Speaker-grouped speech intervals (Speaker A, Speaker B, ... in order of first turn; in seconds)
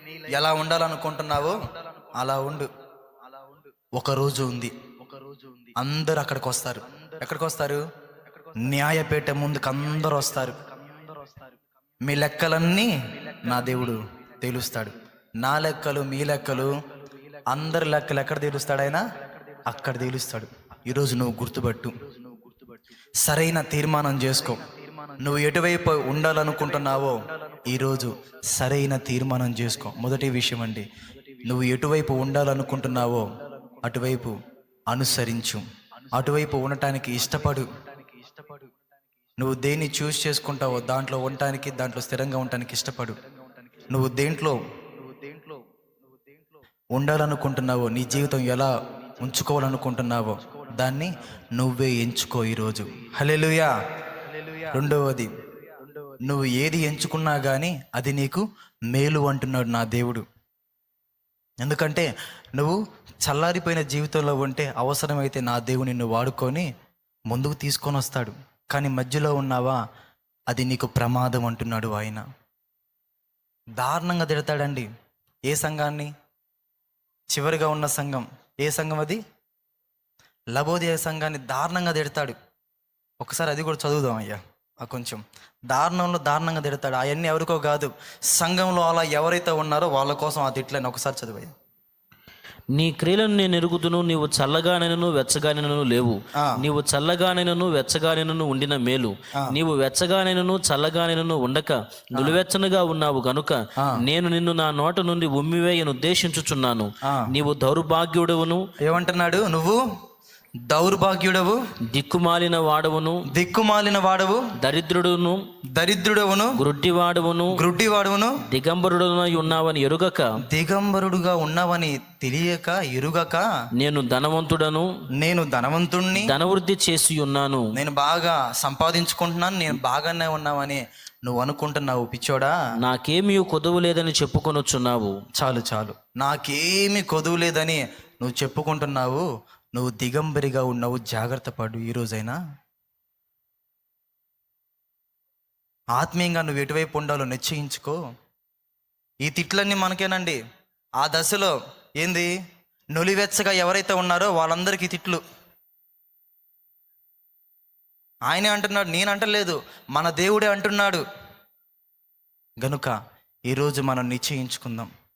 Speaker A: 0.2-2.7, 4.0-4.7, 5.8-7.8, 8.6-10.6, 12.0-16.8, 17.5-19.0, 19.6-21.9, 23.2-24.6, 25.2-30.9, 31.4-34.4, 34.9-37.7, 39.4-43.2, 43.9-44.6, 46.9-53.7, 54.7-55.3, 56.2-60.2, 61.6-66.7, 67.3-69.8, 70.5-72.2, 73.8-74.9, 75.5-76.1, 77.3-79.2, 80.5-82.4, 83.2-91.5, 96.3-96.6, 107.0-107.3, 108.8-109.8, 110.7-111.6, 113.3-114.5, 115.8-116.6, 117.5-118.4, 120.5-123.4, 125.2-126.3, 127.7-132.5, 135.4-142.4, 146.0-148.0, 149.2-150.4, 151.0-152.3, 152.9-155.2, 158.3-161.0, 162.6-162.9, 163.5-164.9
Speaker B: 92.7-108.6, 111.9-113.2, 114.6-115.4, 116.6-117.6, 118.5-120.3, 123.8-124.9, 126.2-127.7, 132.8-135.1